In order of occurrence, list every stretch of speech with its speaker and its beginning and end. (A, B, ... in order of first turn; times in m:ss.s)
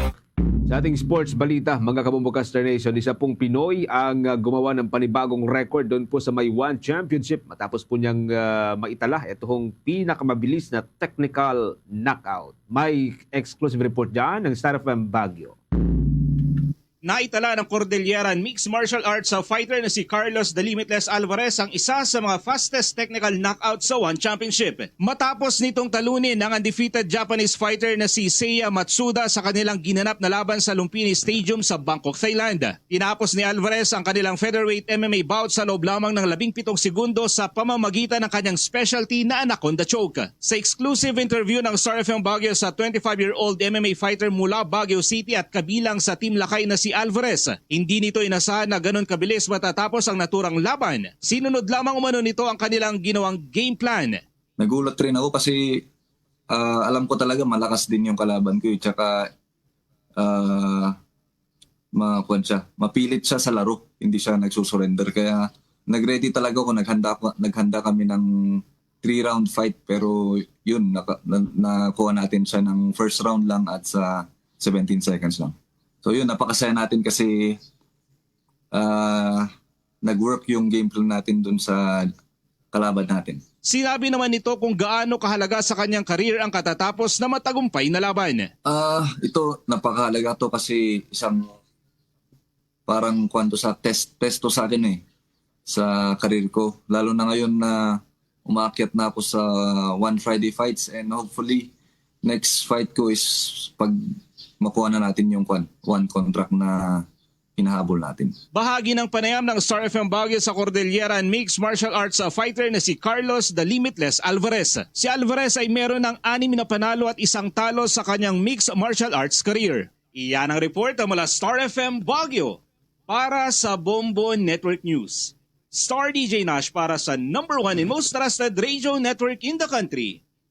0:00.6-0:15.6 A
0:17.0-0:54.2 B
0:54.6-0:55.8 C
0:56.5-0:59.3 C
1:00.2-1:01.0 C
1:01.9-1:17.6 C
1:18.7-1:19.5 C
1:20.0-1:22.1 C
1:22.7-1:23.4 C
1:23.6-1:28.5 B
1:28.6-1:31.5 C
1:32.9-1:35.0 C
1:35.7-1:41.7 C
1:42.2-1:47.0 C
1:47.6-1:48.3 C
1:48.5-2:10.2 B